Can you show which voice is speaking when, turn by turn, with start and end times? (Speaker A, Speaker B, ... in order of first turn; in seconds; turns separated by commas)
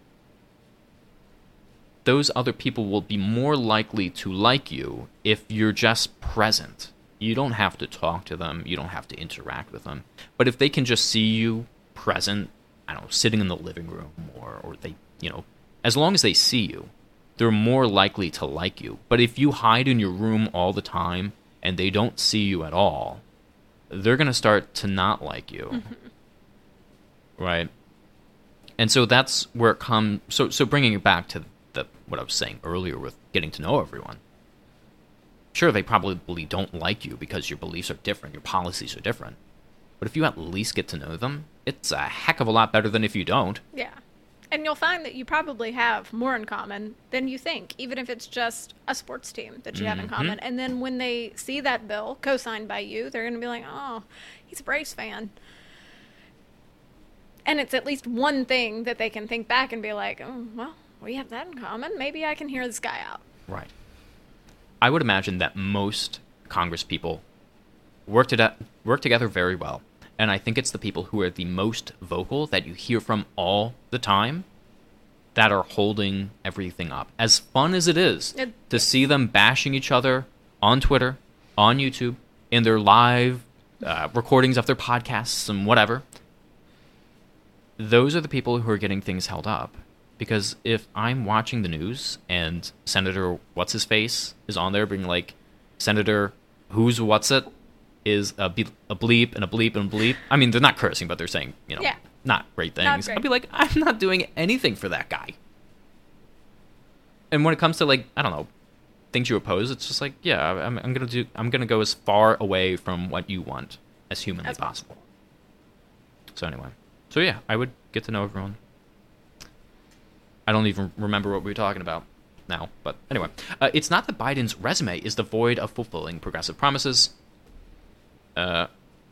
Speaker A: 2.0-23.2, Speaker A: 23.9-25.9, Speaker A: 27.4-27.7, Speaker A: 28.8-34.2, Speaker A: 35.5-39.4, Speaker A: 40.0-43.6, Speaker B: 43.7-44.0, Speaker B: 44.5-55.3, Speaker A: 49.7-50.4, Speaker B: 57.5-63.2, Speaker A: 64.8-67.2, Speaker A: 68.1-74.5, Speaker A: 75.3-86.0, Speaker B: 78.4-78.8, Speaker A: 87.8-97.5, Speaker A: 98.0-105.4, Speaker B: 102.8-103.2, Speaker A: 107.3-108.5, Speaker A: 109.1-114.9, Speaker B: 114.4-115.0, Speaker A: 116.4-118.6, Speaker A: 120.5-127.1, Speaker A: 128.4-128.7